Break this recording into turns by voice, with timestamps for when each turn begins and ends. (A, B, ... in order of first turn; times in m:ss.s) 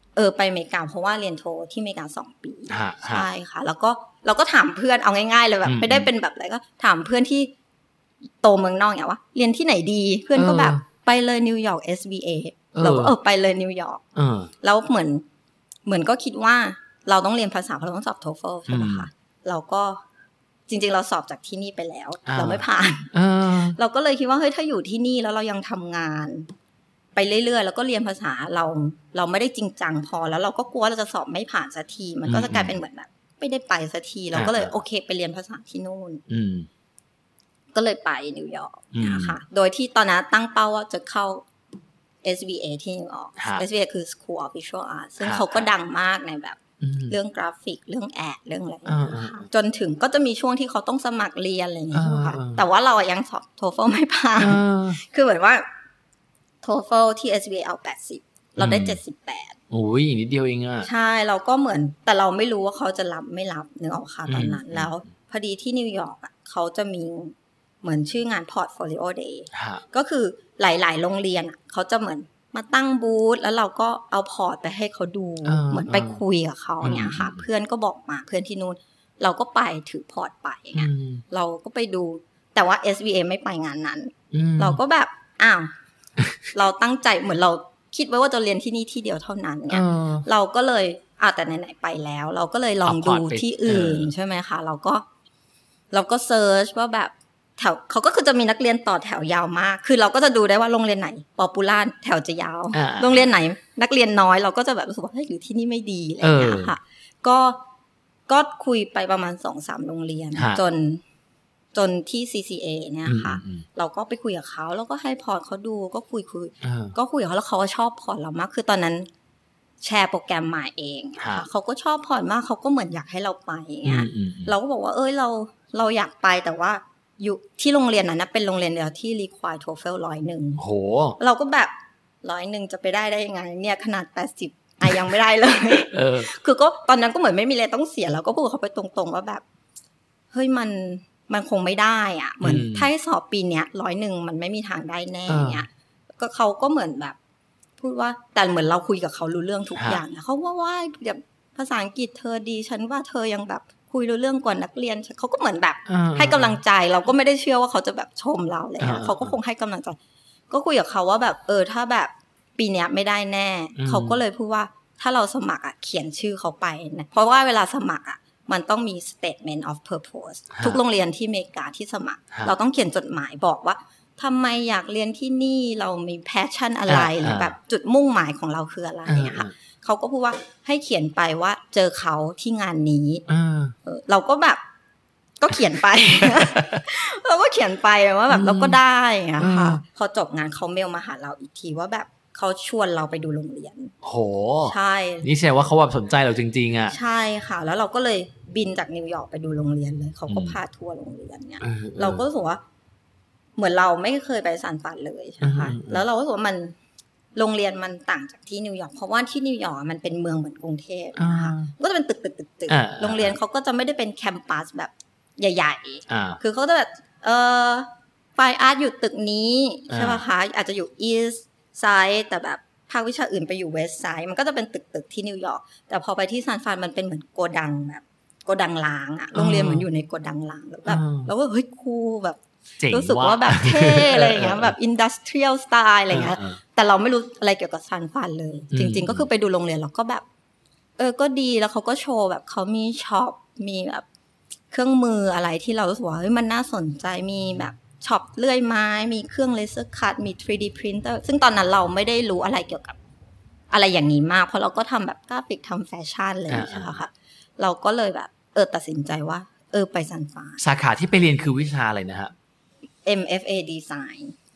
0:00.2-0:07.5 A
0:02.7-0:03.3 B
0:05.6-0:06.1 B
0:08.4-0:14.0 A
0:10.4-0:10.8 B
0:12.7-0:13.2 B
0:14.2-0:14.5 B
0:14.6-0:15.2 A
0:15.9-0:20.0 A
0:18.7-0:19.1 B
0:20.7-0:23.1 A
0:22.3-0:23.8 B
0:23.8-0:26.5 A
0:27.2-0:36.2 A
0:32.3-0:32.8 B
0:34.3-0:34.8 B
0:36.3-0:36.7 B
0:37.7-0:41.4 A
0:38.9-0:39.4 B
0:42.2-0:55.7 A
0:43.4-0:43.6 B
0:45.2-0:45.7 B
0:46.8-0:47.2 B
0:48.9-0:49.5 B
0:51.9-0:52.6 B
0:54.4-0:55.0 B
0:56.6-0:59.6 A
0:58.6-0:59.0 B
0:59.7-1:00.9 B
1:00.8-1:25.7 A
1:04.3-1:04.9 B
1:09.5-1:09.8 B
1:15.4-1:16.2 B
1:16.8-1:17.5 B
1:20.8-1:21.2 B
1:24.3-1:24.8 B
1:26.5-1:35.0 A
1:29.7-1:30.3 B
1:32.8-1:34.1 B
1:35.9-1:47.6 A
1:42.7-1:43.3 B
1:46.2-1:46.7 B
1:48.3-1:51.0 A
1:50.4-1:50.6 B
1:51.7-1:59.1 A
1:53.0-1:53.6 B
1:56.6-1:57.0 B
1:59.8-2:10.6 A
2:01.2-2:01.5 B
2:03.8-2:04.5 B
2:10.6-2:11.2 B
2:11.2-2:11.7 A
2:12.2-2:19.4 A
2:15.9-2:16.3 B
2:20.3-2:27.2 A
2:22.4-2:22.9 B
2:25.3-2:25.6 B
2:27.8-2:40.0 A
2:29.8-2:30.0 B
2:35.9-2:36.6 B
2:38.8-2:39.4 B
2:40.5-3:03.2 A
2:43.8-2:44.2 B
2:56.9-2:57.6 B
2:59.1-2:59.5 B
3:03.3-3:03.8 B
3:03.8-3:04.6 A
3:05.4-3:13.9 A
3:06.2-3:06.8 B
3:08.3-3:08.8 B
3:09.4-3:09.8 B
3:14.0-3:17.0 B
3:14.6-3:15.3 A
3:16.9-3:22.6 A
3:20.3-3:20.6 B
3:21.6-3:22.2 B
3:23.6-3:26.8 A
3:25.4-3:26.0 B
3:27.4-4:00.2 A
3:31.2-3:31.7 B
3:32.7-3:33.3 B
3:36.1-3:36.4 B
3:39.9-3:40.2 B
3:49.4-3:49.9 B
3:50.9-3:51.3 B
3:52.8-3:54.7 B
3:56.1-3:56.6 B
3:58.7-3:59.2 B
4:01.0-4:04.0 A
4:04.7-4:13.0 A
4:13.7-4:20.6 A
4:16.5-4:17.0 B
4:20.6-4:22.3 B
4:23.0-4:24.4 A